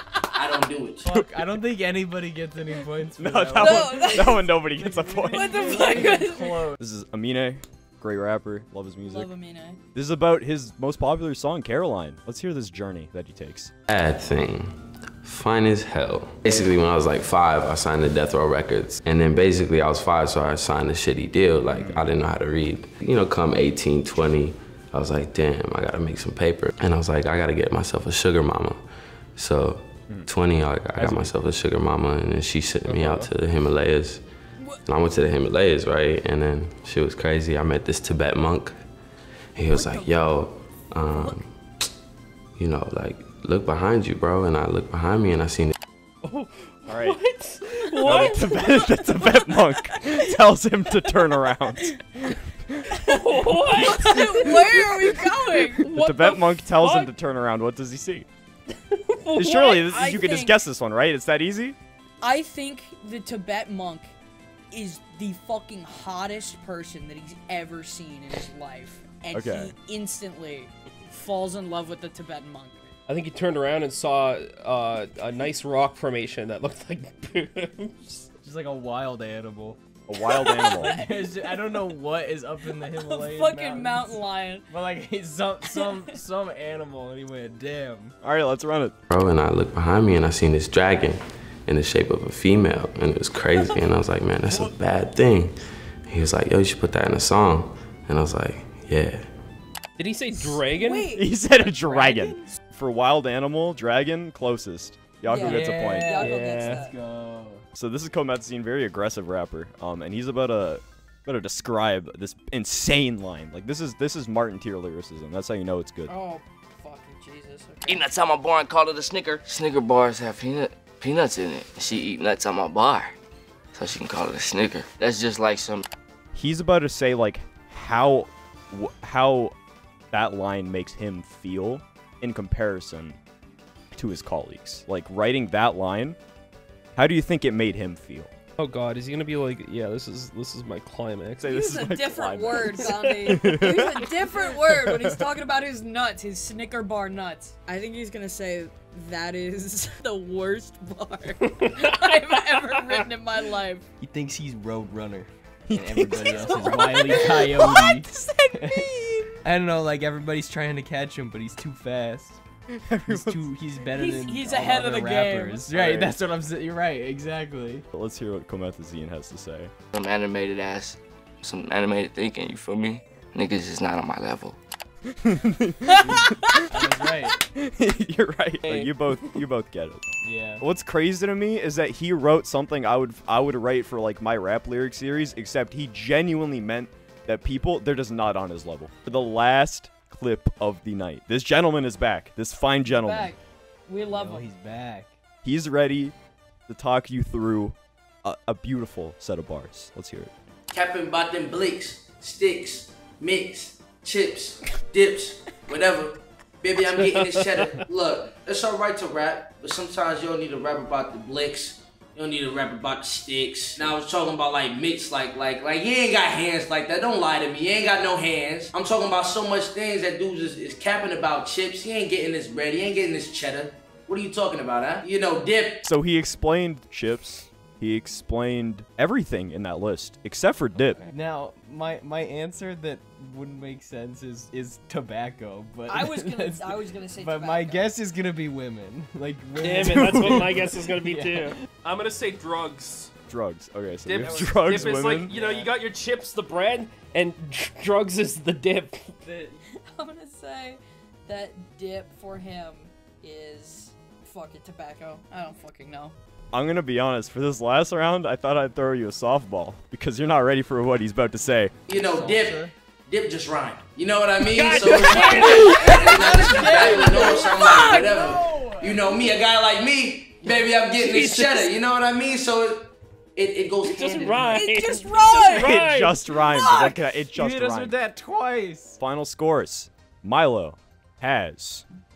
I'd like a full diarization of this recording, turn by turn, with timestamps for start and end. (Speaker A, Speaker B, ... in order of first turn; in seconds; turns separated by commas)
Speaker A: 0.3-1.1, Speaker B: 1.0-6.8, Speaker C: 3.2-5.9, Speaker D: 3.6-4.5, Speaker D: 5.3-6.7, Speaker C: 6.8-9.3, Speaker D: 9.1-9.8, Speaker C: 9.9-13.7, Speaker E: 13.9-28.8, Speaker C: 21.7-22.1, Speaker E: 29.4-34.2, Speaker C: 31.0-31.3, Speaker F: 32.9-33.3, Speaker D: 34.6-34.9, Speaker E: 34.9-38.8, Speaker E: 39.6-41.5, Speaker D: 39.7-40.2, Speaker D: 41.1-41.4, Speaker E: 42.6-45.8, Speaker F: 46.2-48.8, Speaker C: 46.9-47.2, Speaker C: 48.0-53.0, Speaker F: 53.1-54.9, Speaker C: 53.7-54.6, Speaker D: 53.8-55.9, Speaker F: 55.5-57.1, Speaker C: 55.9-58.3, Speaker F: 58.9-59.8, Speaker C: 59.4-61.8, Speaker D: 59.6-60.6, Speaker D: 62.2-64.1, Speaker D: 64.7-72.9, Speaker C: 69.3-69.7, Speaker F: 73.1-78.2, Speaker B: 78.4-79.8, Speaker C: 80.1-81.0, Speaker D: 80.1-81.3, Speaker B: 80.8-88.2, Speaker D: 82.8-84.7, Speaker D: 85.6-86.2, Speaker C: 88.2-89.0, Speaker E: 89.1-95.5, Speaker E: 96.1-99.2, Speaker F: 100.0-101.1, Speaker D: 100.3-102.4, Speaker C: 101.2-106.2, Speaker D: 105.2-106.9, Speaker B: 105.4-107.6, Speaker F: 106.2-106.9, Speaker C: 107.7-116.1, Speaker D: 116.1-118.1, Speaker G: 117.9-123.2, Speaker G: 123.8-125.8, Speaker C: 126.3-129.6, Speaker C: 130.1-133.2, Speaker C: 133.9-136.2, Speaker C: 137.0-138.3, Speaker F: 138.6-141.5, Speaker C: 141.4-145.2, Speaker D: 141.5-153.8, Speaker B: 154.0-158.9, Speaker C: 155.7-157.1, Speaker D: 156.4-158.4, Speaker C: 158.8-159.2, Speaker B: 159.4-162.4, Speaker C: 162.7-163.5, Speaker B: 163.1-167.8, Speaker D: 163.9-165.8, Speaker C: 165.7-166.1, Speaker C: 167.9-169.7, Speaker G: 169.9-174.6, Speaker C: 175.1-176.9, Speaker B: 176.1-177.4, Speaker C: 177.5-180.0, Speaker F: 178.6-179.2, Speaker B: 180.2-180.6, Speaker C: 180.6-193.3, Speaker D: 193.0-194.5, Speaker B: 194.1-195.1, Speaker C: 195.4-196.1, Speaker C: 196.7-200.3, Speaker A: 200.7-225.8, Speaker F: 207.0-207.8, Speaker C: 225.8-231.1, Speaker B: 230.8-241.6, Speaker D: 235.9-237.9, Speaker F: 239.6-243.1, Speaker C: 239.8-240.5, Speaker C: 243.3-245.3, Speaker F: 244.1-249.2, Speaker B: 244.1-245.8, Speaker B: 249.2-249.6, Speaker D: 249.8-256.1, Speaker C: 256.5-261.7, Speaker A: 261.9-274.6, Speaker B: 261.9-262.7, Speaker F: 264.4-267.0, Speaker D: 265.1-268.1, Speaker B: 266.6-269.2, Speaker F: 271.0-271.7, Speaker F: 273.8-276.4, Speaker D: 274.5-275.8, Speaker C: 275.5-278.0, Speaker D: 276.4-277.0, Speaker B: 277.4-279.0, Speaker C: 279.0-281.9